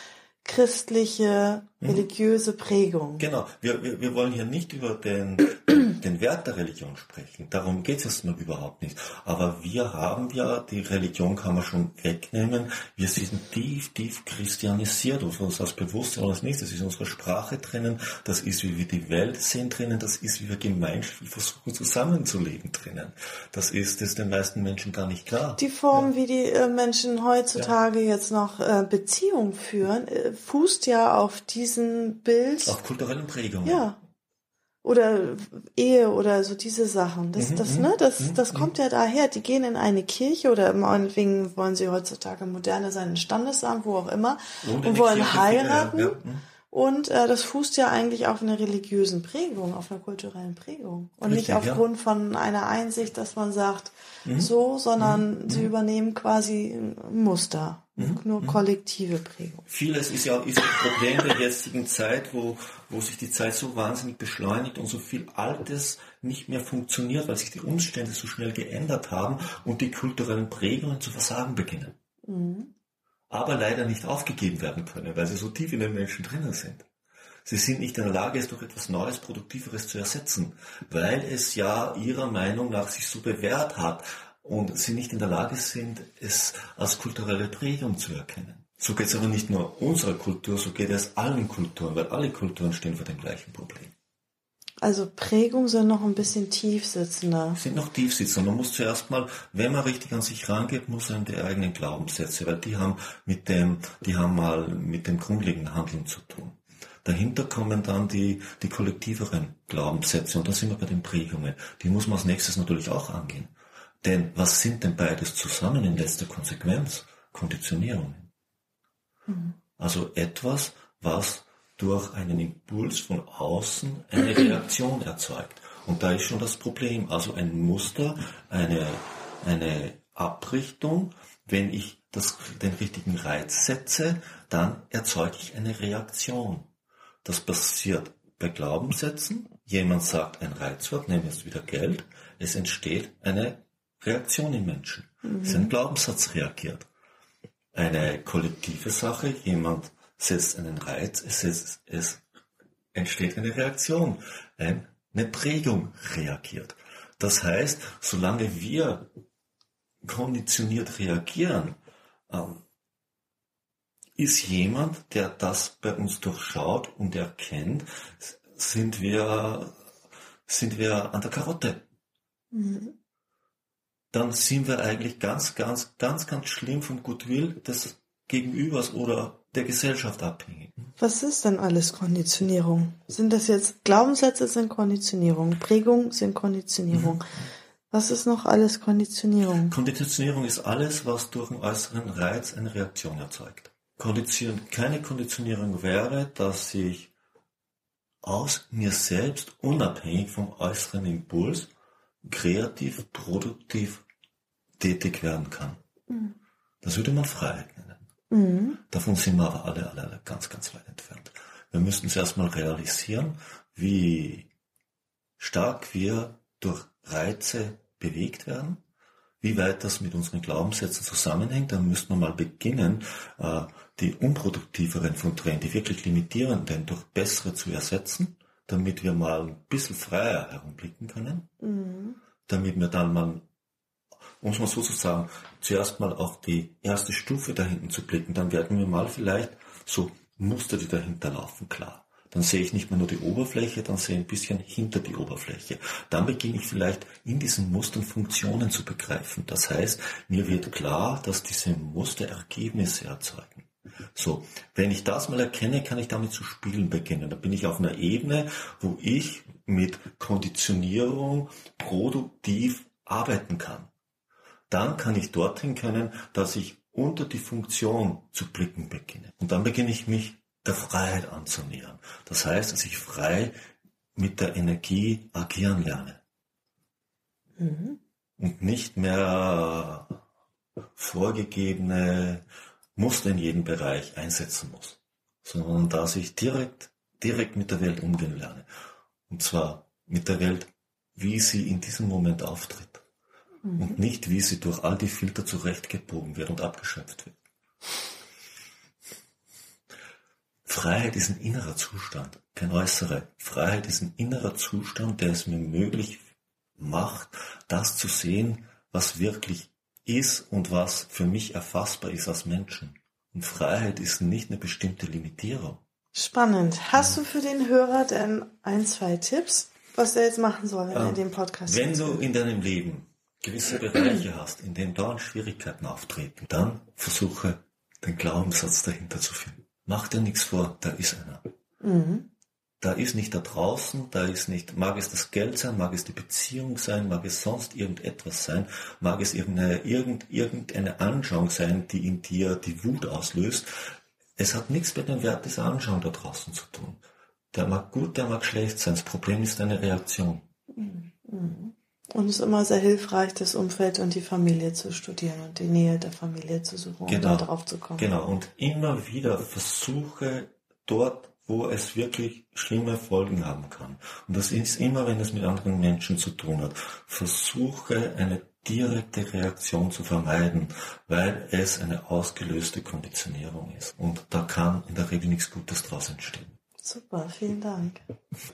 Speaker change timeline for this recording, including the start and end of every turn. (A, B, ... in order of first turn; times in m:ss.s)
0:00.4-0:03.3 A
0:01.8-0:02.1 B
0:03.2-0:26.1 B
0:25.6-0:32.8 A
0:32.6-0:33.9 B
0:33.6-0:34.0 A
0:34.8-0:46.2 A
0:37.4-0:38.7 B
0:44.6-0:46.4 B
0:46.7-0:59.6 A
0:51.2-0:51.8 B
0:54.2-0:55.7 B
0:58.0-0:58.6 B
0:59.7-1:11.9 B
1:12.3-1:12.7 A
1:13.3-1:16.9 B
1:17.4-1:33.9 B
1:34.8-1:37.6 A
1:37.6-1:53.5 B
1:54.0-1:58.3 B
1:59.3-1:59.6 A
1:59.8-2:16.7 B
2:17.2-2:26.9 B
2:25.2-2:25.7 A
2:27.7-2:32.2 B
2:32.9-2:39.1 B
2:40.0-2:41.8 B
2:42.3-2:42.6 B
2:44.2-2:49.7 B
2:50.5-2:51.8 B
2:52.5-2:53.0 A
2:54.1-3:00.9 B
3:01.0-3:07.3 A
3:06.9-3:07.5 B
3:07.9-3:09.8 A
3:09.7-3:17.1 B
3:18.2-3:21.7 B
3:22.2-3:24.0 B
3:24.8-3:25.8 B
3:26.1-3:26.4 A
3:26.8-3:28.0 B
3:28.3-3:28.8 A
3:28.9-3:34.5 B
3:35.4-3:38.8 B
3:39.4-3:51.5 B
3:51.6-3:52.2 A
3:52.5-3:53.4 B
3:54.4-4:23.9 B
4:24.7-4:33.6 B
4:34.2-4:36.2 B
4:37.6-4:38.0 A
4:38.4-4:40.2 B
4:41.0-4:42.4 B
4:43.0-4:48.7 B
4:49.3-4:53.0 B
4:53.6-4:54.0 A
4:53.8-4:57.4 B
5:00.7-5:06.2 B
5:06.8-5:15.8 B
5:16.1-5:22.2 A
5:20.9-5:31.4 B
5:31.8-5:32.3 A
5:32.8-5:43.7 B
5:44.4-5:47.0 B
5:47.5-5:50.4 B
5:50.7-5:58.1 A
5:57.1-6:16.5 B
6:16.8-6:18.0 A